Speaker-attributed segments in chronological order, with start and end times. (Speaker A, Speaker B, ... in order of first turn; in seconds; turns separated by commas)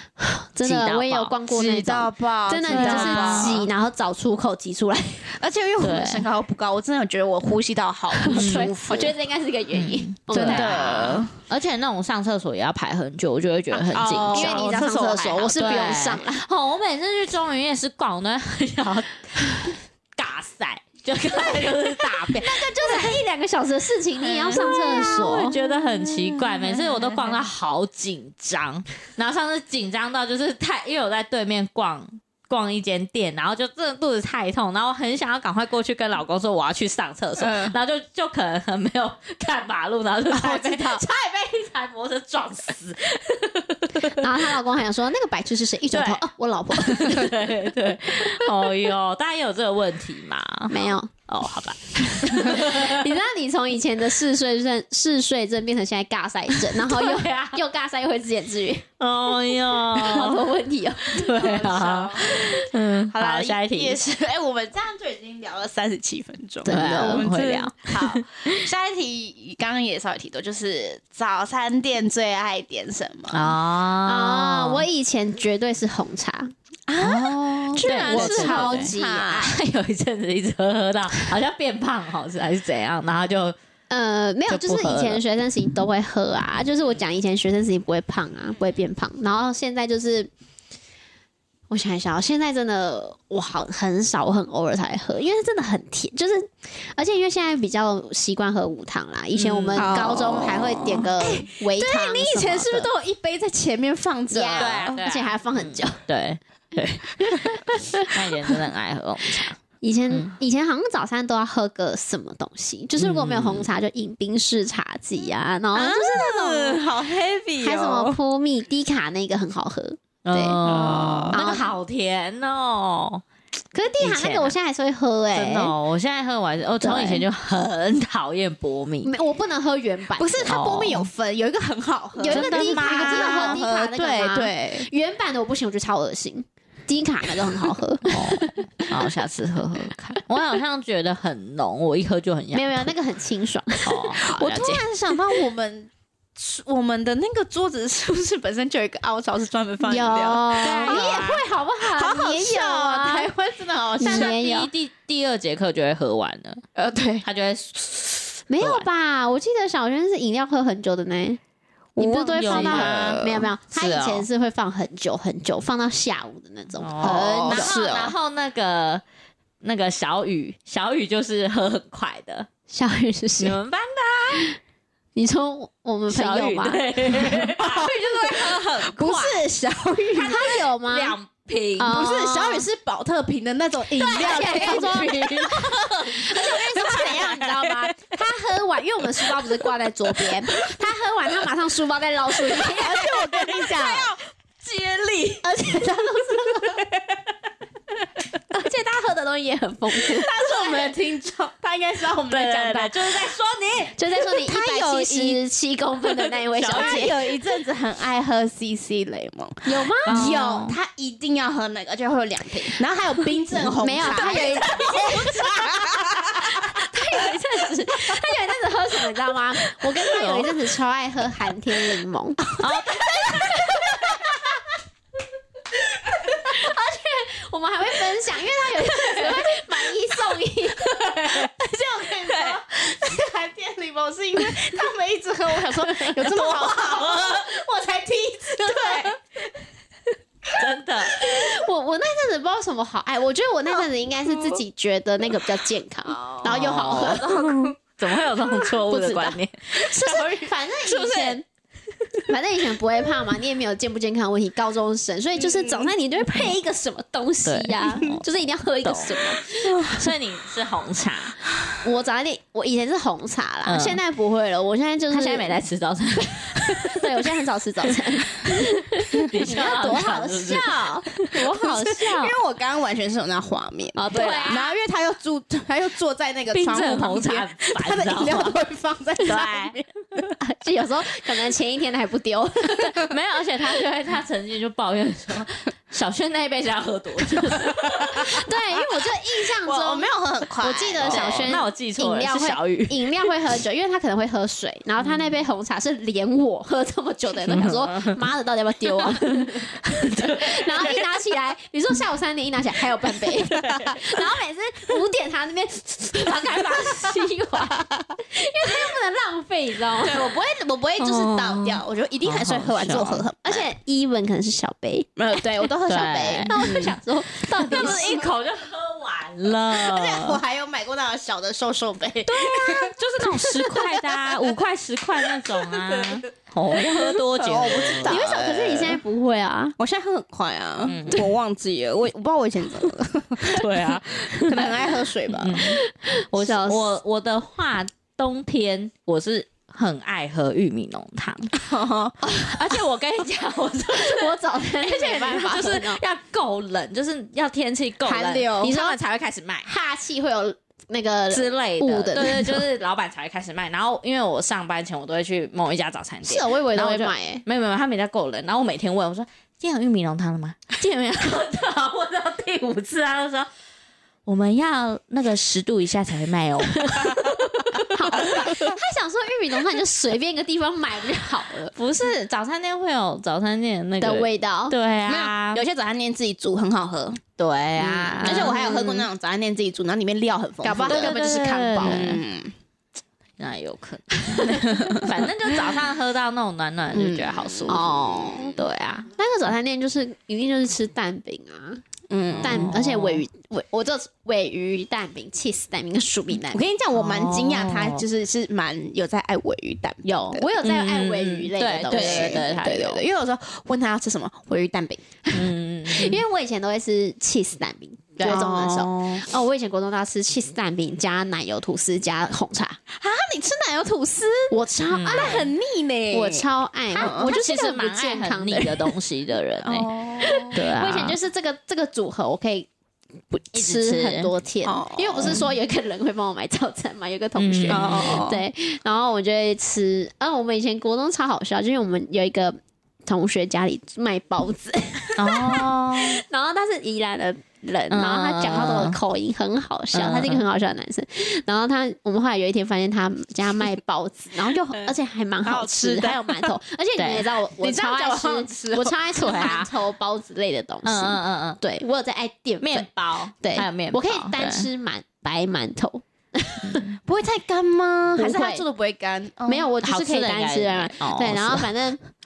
Speaker A: 0.2-5.3, Speaker B: 0.6-1.4, Speaker C: 1.5-3.7, Speaker B: 2.6-3.6, Speaker C: 5.3-9.1, Speaker B: 5.8-6.3, Speaker A: 8.2-11.2, Speaker B: 8.3-8.7, Speaker B: 9.7-14.7, Speaker C: 10.3-11.3, Speaker C: 13.7-16.0, Speaker A: 14.1-16.4, Speaker B: 15.6-23.1, Speaker A: 22.3-25.6, Speaker C: 24.3-27.4, Speaker B: 24.5-44.4, Speaker C: 37.4-37.8, Speaker A: 40.4-41.0, Speaker A: 44.0-47.5, Speaker B: 45.9-46.2, Speaker B: 46.7-53.1, Speaker A: 50.7-51.1, Speaker A: 52.2-58.9, Speaker B: 56.7-57.6, Speaker B: 59.0-60.5, Speaker A: 59.7-61.6, Speaker B: 61.0-64.0, Speaker C: 61.3-73.5, Speaker A: 66.6-67.3, Speaker B: 66.7-68.7, Speaker B: 73.3-74.9, Speaker A: 74.0-76.5, Speaker C: 76.9-79.5, Speaker B: 77.0-83.5, Speaker A: 77.8-79.5, Speaker A: 83.9-90.3, Speaker B: 84.5-85.2, Speaker A: 91.7-102.9, Speaker B: 99.3-99.9, Speaker C: 99.8-105.0, Speaker A: 104.3-106.0, Speaker B: 104.6-109.6, Speaker A: 107.3-107.7, Speaker A: 109.8-116.8, Speaker B: 113.0-113.7, Speaker C: 115.7-118.2, Speaker A: 117.6-120.6, Speaker B: 120.2-123.2, Speaker C: 120.6-121.4, Speaker A: 121.3-121.7, Speaker A: 123.7-125.7, Speaker B: 124.0-124.5, Speaker B: 125.3-129.1, Speaker A: 126.8-127.3, Speaker A: 129.0-130.5, Speaker C: 130.2-134.9, Speaker B: 130.5-131.1, Speaker A: 132.2-139.0, Speaker B: 132.3-133.6, Speaker B: 138.1-142.9, Speaker A: 142.5-144.2, Speaker B: 143.8-144.8, Speaker C: 144.3-151.2, Speaker A: 149.8-153.3, Speaker B: 150.6-151.4, Speaker C: 151.8-154.4, Speaker A: 154.0-154.7, Speaker B: 154.0-156.6, Speaker C: 156.7-157.3, Speaker B: 157.2-158.9, Speaker A: 158.5-161.4, Speaker A: 162.0-167.8, Speaker B: 162.0-164.3, Speaker C: 162.1-163.5, Speaker B: 166.8-169.0, Speaker C: 167.0-168.1, Speaker B: 169.6-172.5, Speaker A: 172.7-173.6, Speaker B: 173.4-174.5, Speaker A: 175.2-176.8, Speaker B: 176.1-179.4, Speaker C: 177.3-180.6, Speaker A: 180.1-181.2, Speaker B: 180.9-182.1, Speaker A: 181.8-182.7, Speaker C: 181.8-187.9, Speaker A: 183.9-194.1, Speaker B: 184.2-186.4, Speaker C: 192.5-195.4, Speaker B: 194.8-195.4, Speaker A: 195.4-196.8, Speaker C: 196.6-196.9, Speaker A: 198.5-200.3, Speaker C: 199.9-203.4, Speaker B: 200.4-201.0, Speaker B: 202.2-203.9, Speaker A: 203.9-207.2, Speaker C: 204.2-205.4, Speaker B: 206.6-207.2, Speaker C: 206.6-216.8, Speaker A: 209.6-210.3, Speaker B: 210.1-210.8, Speaker A: 213.8-222.6, Speaker B: 220.0-220.5, Speaker C: 222.6-224.3, Speaker B: 222.6-223.7, Speaker A: 223.2-224.4, Speaker A: 226.3-231.0, Speaker B: 231.0-231.5, Speaker C: 231.0-239.2, Speaker B: 232.3-232.6, Speaker B: 235.8-237.6, Speaker B: 238.6-239.1, Speaker B: 240.5-241.2, Speaker C: 241.2-241.5, Speaker A: 241.2-247.3, Speaker C: 246.1-247.8, Speaker B: 246.4-250.0, Speaker A: 248.9-251.4, Speaker C: 249.8-251.4, Speaker A: 252.3-260.0, Speaker C: 255.4-255.9, Speaker B: 257.4-258.2, Speaker B: 258.8-261.4, Speaker A: 261.8-265.6, Speaker B: 263.6-264.0, Speaker B: 265.1-267.1, Speaker A: 266.2-272.2, Speaker B: 268.4-272.3, Speaker C: 269.5-270.6, Speaker C: 271.4-280.3, Speaker A: 273.9-274.7, Speaker B: 274.1-274.7, Speaker B: 276.5-278.6, Speaker B: 279.2-279.8, Speaker A: 280.4-283.1, Speaker B: 282.8-288.4, Speaker A: 288.0-310.3, Speaker C: 289.6-291.6, Speaker B: 291.0-293.3, Speaker B: 297.4-298.2, Speaker B: 299.0-301.1, Speaker B: 303.6-303.9, Speaker C: 310.0-313.6, Speaker B: 311.0-313.3, Speaker A: 313.4-315.7, Speaker C: 315.2-316.9, Speaker B: 315.8-316.9, Speaker A: 316.5-318.3, Speaker B: 317.5-320.4, Speaker C: 317.7-318.3, Speaker C: 319.7-322.9, Speaker B: 322.3-328.2, Speaker A: 322.4-322.9, Speaker C: 323.6-324.4, Speaker C: 325.4-326.2, Speaker C: 326.7-329.0, Speaker A: 328.1-329.7, Speaker C: 329.8-335.6, Speaker B: 330.8-331.2, Speaker B: 333.4-335.8, Speaker A: 335.6-336.9, Speaker B: 336.3-341.6, Speaker C: 341.5-342.4, Speaker B: 342.3-349.7, Speaker A: 343.9-346.0, Speaker C: 348.0-348.9, Speaker A: 348.6-348.9, Speaker A: 349.6-352.6, Speaker B: 351.3-363.5, Speaker A: 356.2-357.4, Speaker B: 364.3-368.5, Speaker A: 367.8-371.7, Speaker B: 371.7-375.6, Speaker A: 374.0-374.8, Speaker C: 375.1-377.2, Speaker B: 377.4-378.6, Speaker A: 377.8-379.1, Speaker C: 378.2-382.5, Speaker A: 380.6-382.2, Speaker B: 380.9-382.2, Speaker B: 383.4-389.1, Speaker C: 384.5-385.1, Speaker C: 386.9-388.5, Speaker A: 387.7-391.8, Speaker C: 392.1-392.8, Speaker B: 392.3-393.2, Speaker A: 392.4-396.6, Speaker C: 396.5-400.5, Speaker B: 396.9-398.0, Speaker A: 400.0-403.0, Speaker B: 400.6-403.0, Speaker C: 401.9-405.0, Speaker B: 405.3-406.2, Speaker A: 405.9-412.8, Speaker C: 408.2-408.9, Speaker B: 408.2-409.2, Speaker C: 412.9-414.6, Speaker A: 414.5-415.4, Speaker B: 414.9-415.5, Speaker C: 415.1-417.3, Speaker A: 416.1-418.9, Speaker B: 416.9-419.9, Speaker C: 419.6-420.5, Speaker A: 420.2-422.7, Speaker B: 420.5-421.1, Speaker A: 423.3-452.9, Speaker B: 423.6-424.3, Speaker C: 424.6-425.4, Speaker B: 427.4-428.2, Speaker C: 427.7-428.4, Speaker B: 435.2-436.2, Speaker B: 437.9-439.0, Speaker B: 439.9-440.4, Speaker C: 445.4-446.5, Speaker B: 447.0-447.3, Speaker C: 447.6-448.9, Speaker B: 449.1-449.7, Speaker B: 450.8-451.6, Speaker B: 452.6-454.7, Speaker A: 453.4-456.8, Speaker B: 456.6-457.0, Speaker C: 457.1-459.7, Speaker A: 458.1-458.6, Speaker A: 459.4-462.0, Speaker B: 459.8-461.7